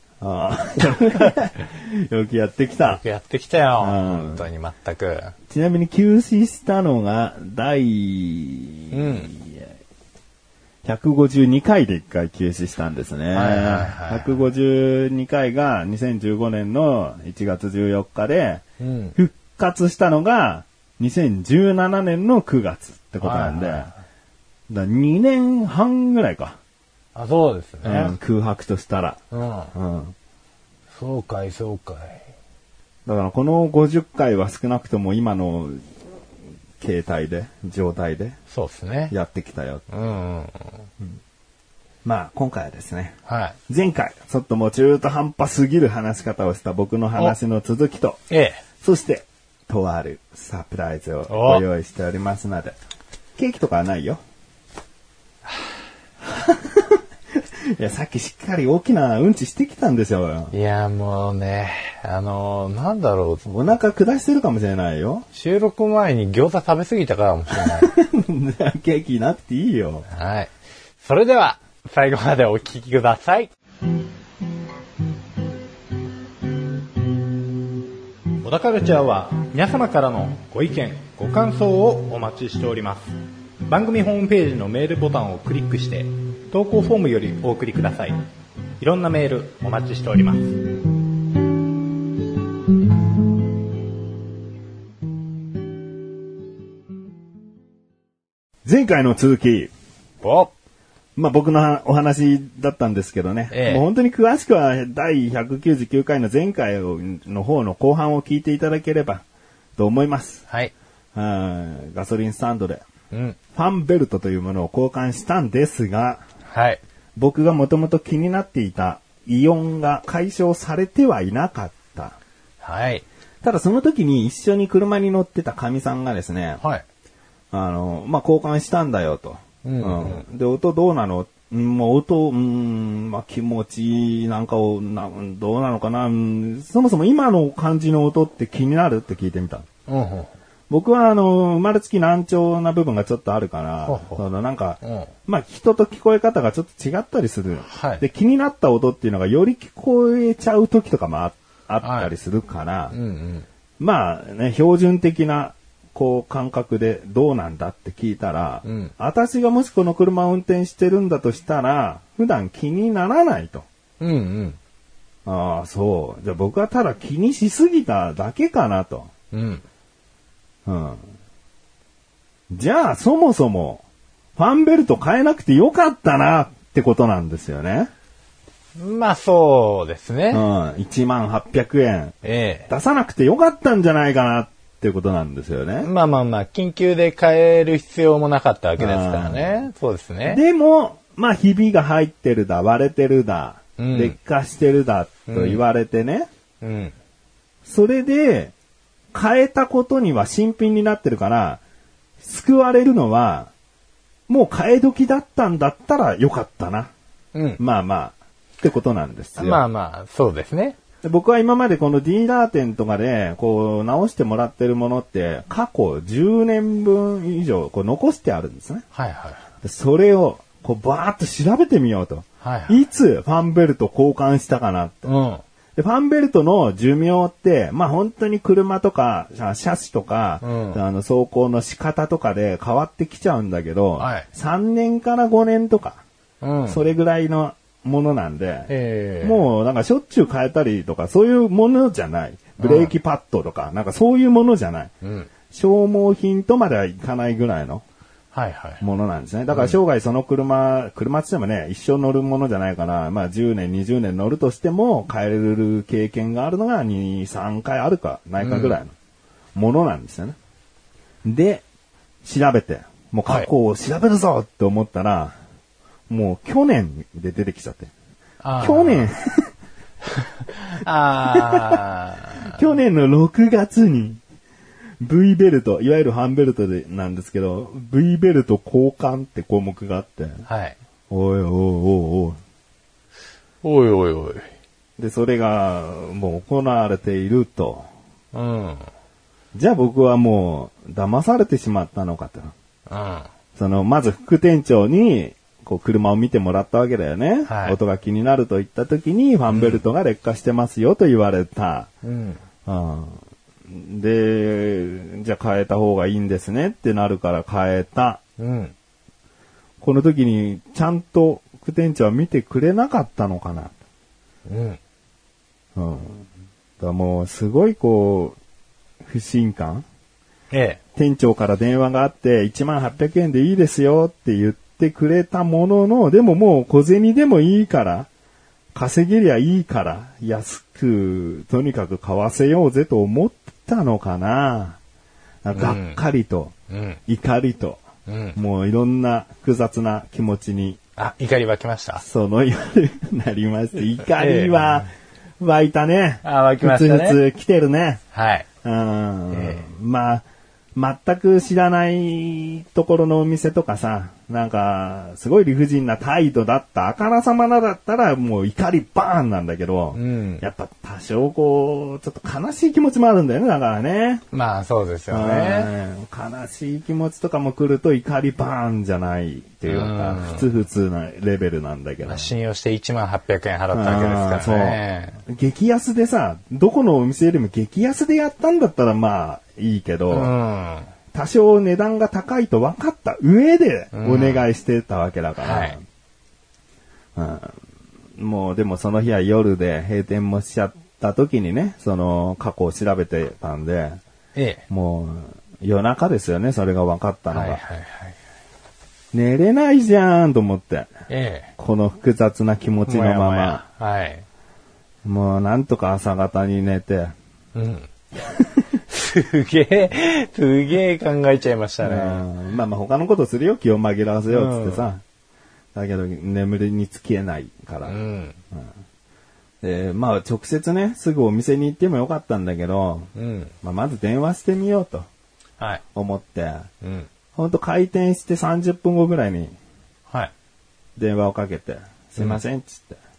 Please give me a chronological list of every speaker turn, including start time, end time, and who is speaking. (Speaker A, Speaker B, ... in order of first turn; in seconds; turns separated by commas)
Speaker A: 0.2-3.0, Speaker B: 2.8-5.3, Speaker A: 3.8-4.5, Speaker A: 5.5-9.7, Speaker B: 8.9-9.3, Speaker A: 10.8-18.6, Speaker B: 13.3-14.4, Speaker B: 18.8-19.2, Speaker A: 19.2-23.9, Speaker B: 23.2-23.9, Speaker A: 24.7-26.6, Speaker B: 27.1-28.2, Speaker A: 27.8-29.2, Speaker B: 29.3-29.7, Speaker A: 29.7-30.1, Speaker B: 30.9-32.2, Speaker A: 33.1-35.8, Speaker A: 36.8-38.4, Speaker B: 38.5-39.1, Speaker A: 39.1-39.9, Speaker B: 39.9-40.8, Speaker A: 42.0-48.2, Speaker B: 43.3-43.6, Speaker B: 48.3-48.6, Speaker A: 48.8-52.8, Speaker B: 51.3-51.6, Speaker A: 53.4-54.2, Speaker A: 56.2-57.0, Speaker A: 57.6-60.5, Speaker B: 60.5-63.5, Speaker A: 63.5-65.3, Speaker B: 65.3-67.9, Speaker A: 67.5-70.1, Speaker B: 70.1-73.5, Speaker B: 78.4-83.2, Speaker B: 83.7-88.2, Speaker B: 88.8-90.5, Speaker A: 98.7-99.7, Speaker B: 100.2-100.5, Speaker A: 101.2-109.2, Speaker B: 103.5-103.9, Speaker A: 109.8-110.5, Speaker A: 111.2-112.8, Speaker B: 113.1-113.4, Speaker A: 113.5-116.2, Speaker B: 116.5-116.8, Speaker A: 117.2-122.2, Speaker B: 122.6-123.0, Speaker A: 123.4-126.6, Speaker A: 127.5-139.7, Speaker B: 129.6-130.2, Speaker B: 139.9-140.3, Speaker A: 140.7-153.0, Speaker B: 143.8-144.2, Speaker B: 144.8-145.1, Speaker B: 147.7-148.0, Speaker B: 151.8-152.1, Speaker B: 152.9-153.5, Speaker A: 153.8-163.7, Speaker B: 158.7-158.9, Speaker B: 164.0-164.6, Speaker A: 165.3-169.1, Speaker B: 169.3-169.6, Speaker A: 170.7-171.0, Speaker A: 172.5-173.8, Speaker A: 174.4-177.9, Speaker B: 178.8-180.4, Speaker A: 180.3-182.2, Speaker B: 182.2-182.7, Speaker A: 182.7-185.9, Speaker B: 185.8-190.4, Speaker A: 188.8-189.6, Speaker A: 190.3-196.3, Speaker B: 193.8-194.2, Speaker B: 195.3-195.6, Speaker B: 196.6-196.9, Speaker A: 197.7-198.5, Speaker A: 199.1-201.6, Speaker A: 202.2-203.5, Speaker A: 204.3-206.9, Speaker B: 207.3-207.6, Speaker A: 207.6-209.6, Speaker B: 209.4-210.8, Speaker A: 211.0-218.8, Speaker B: 218.9-219.4, Speaker A: 219.6-225.1, Speaker B: 222.4-222.8, Speaker B: 225.1-225.4, Speaker A: 225.8-236.0, Speaker B: 230.4-230.8, Speaker B: 234.0-234.3, Speaker B: 236.4-236.8, Speaker A: 236.7-244.9, Speaker B: 238.7-239.4, Speaker B: 242.6-242.9, Speaker B: 245.0-245.3, Speaker A: 245.5-247.8, Speaker B: 248.3-248.8, Speaker A: 248.8-258.9, Speaker B: 249.5-249.8, Speaker B: 258.4-258.8, Speaker A: 259.6-260.4, Speaker A: 261.2-261.6, Speaker A: 262.2-265.4, Speaker A: 266.1-267.9, Speaker B: 268.4-269.1, Speaker A: 268.6-269.5, Speaker B: 270.5-272.6, Speaker A: 271.2-271.8, Speaker A: 272.4-274.2, Speaker A: 275.0-280.4, Speaker B: 280.5-280.8, Speaker A: 281.1-282.4, Speaker B: 283.6-284.5, Speaker A: 285.0-287.9, Speaker B: 288.3-288.9, Speaker A: 289.5-292.5, Speaker B: 292.9-293.3, Speaker A: 293.6-301.9, Speaker B: 297.5-297.8, Speaker B: 299.5-299.8, Speaker B: 302.0-302.4, Speaker A: 302.7-308.2, Speaker B: 308.4-308.7, Speaker A: 309.8-313.8, Speaker B: 314.5-314.8, Speaker A: 315.8-316.2, Speaker A: 316.8-318.4, Speaker A: 319.0-319.8, Speaker B: 320.5-320.8, Speaker A: 320.9-328.1, Speaker A: 328.7-334.8, Speaker A: 335.4-336.5, Speaker B: 335.5-336.0, Speaker B: 336.7-337.0, Speaker A: 337.1-337.8, Speaker B: 338.1-338.4, Speaker A: 338.4-340.8, Speaker B: 341.0-342.0, Speaker A: 342.0-348.0, Speaker B: 344.1-344.9, Speaker B: 346.2-347.2, Speaker B: 348.1-348.5, Speaker A: 348.6-350.2, Speaker B: 349.3-349.7, Speaker A: 350.8-364.2, Speaker B: 359.9-360.4, Speaker B: 364.3-365.7, Speaker A: 365.1-372.3, Speaker B: 369.7-370.4, Speaker B: 372.0-375.2, Speaker A: 373.7-380.3, Speaker B: 380.1-380.9, Speaker A: 381.1-385.8, Speaker B: 383.9-384.4, Speaker B: 385.4-385.8, Speaker A: 387.2-387.6, Speaker A: 388.2-394.0, Speaker B: 394.4-394.6, Speaker A: 394.7-397.6, Speaker B: 397.3-398.2, Speaker A: 399.1-400.9, Speaker B: 401.1-401.5, Speaker A: 401.6-403.6, Speaker B: 402.9-404.2, Speaker A: 405.1-407.1, Speaker B: 407.5-407.9, Speaker A: 408.2-408.7, Speaker B: 408.9-412.3, Speaker A: 411.8-415.0, Speaker B: 414.3-414.8, Speaker A: 415.7-418.0, Speaker B: 417.9-418.4, Speaker A: 419.6-423.1, Speaker B: 423.1-423.5, Speaker A: 423.6-425.1, Speaker A: 425.9-426.7, Speaker B: 426.8-427.1, Speaker A: 427.4-429.6, Speaker A: 431.0-433.0